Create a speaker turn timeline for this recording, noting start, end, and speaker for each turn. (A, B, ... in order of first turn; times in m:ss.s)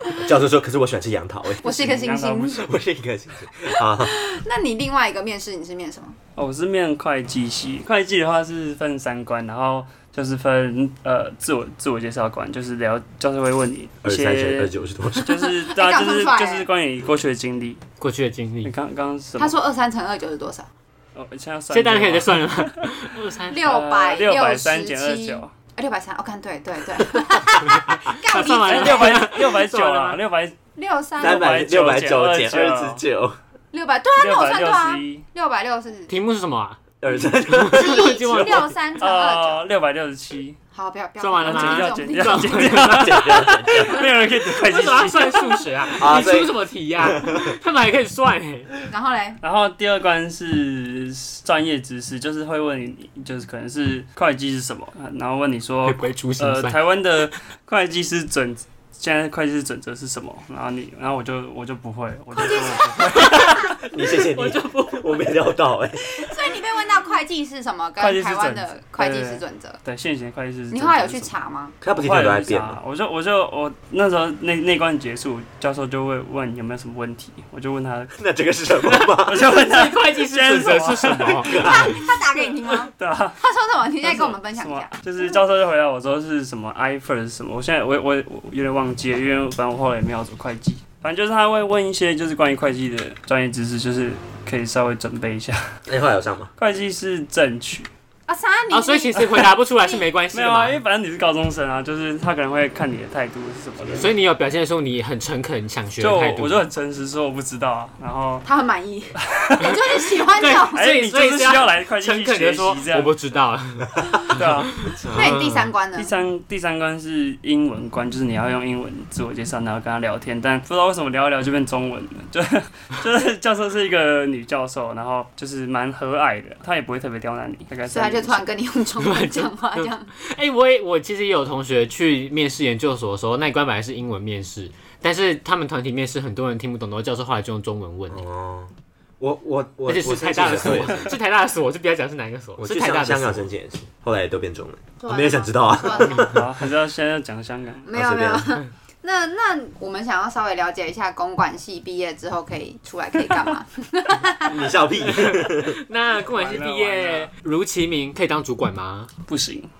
0:00.2-0:01.6 A
0:01.6-0:02.6 B
0:01.6-0:02.7 C
0:02.6-0:04.1 A
0:03.8-0:06.2 B
0:06.4-0:17.8 C
0:14.0-0:15.3 A
0:15.4-0:16.7 B
0:18.0-0:18.7 D
0:18.6-0:19.5 C
0:19.4-0:20.7 B
0:21.1-0:22.9 C
0:21.7-0:23.6 D
0:23.5-0:29.4 B
0:23.6-0:25.5 C
0:27.6-0:30.2 D
0:28.6-0:30.6 C
0:30.7-0:31.5 B
0:31.2-0:33.0 C
0:31.2-0:33.4 A
0:33.7-0:36.1 B
0:34.2-0:35.2 C
0:36.1-0:36.8 D
0:37.0-0:38.7 A
0:37.5-0:38.7 D
0:37.7-0:39.6 B
0:39.0-0:40.6 C
0:40.7-0:42.7 B
0:41.2-0:48.7 D
0:41.4-0:45.6 C
0:42.8-0:44.0 A
0:46.0-0:47.5 A
0:48.9-0:49.4 B
0:49.4-1:03.7 C
0:55.8-0:56.8 D
1:02.3-1:03.7 B
1:03.0-1:05.4 D
1:03.8-1:06.0 A
1:06.0-1:09.8 B
1:08.0-1:11.3 C
1:10.7-1:11.8 B
1:11.8-1:12.8 A
1:11.9-1:18.2 C
1:18.2-1:19.5 A
1:18.8-1:21.9 D
1:18.9-1:23.4 C
1:21.4-1:22.0 A
1:21.6-1:25.4 B
1:24.0-1:35.6 C
1:35.9-1:36.5 A
1:36.6-1:37.9 C
1:38.3-1:40.0 B
1:38.7-1:40.8 D
1:40.3-1:44.1 C
1:43.9-1:46.6 D
1:46.0-1:48.4 C
1:48.4-1:50.8 B
1:49.3-1:49.8 C
1:50.3-1:55.7 D
1:50.6-1:53.1 C
1:54.3-1:54.8 C
1:55.0-1:55.4 A
1:55.1-1:56.1 B
1:55.9-2:08.4 C
2:07.9-2:10.1 B
2:09.0-2:18.2 D
2:18.1-2:21.1 A
2:19.8-2:23.5 D
2:22.6-2:26.5 A
2:25.0-2:26.3 B
2:25.9-2:27.9 C
2:27.8-2:34.6 B
2:27.9-2:28.6 A
2:34.4-2:35.8 A
2:35.0-2:39.1 D
2:36.2-2:37.3 C
2:39.3-2:39.7 C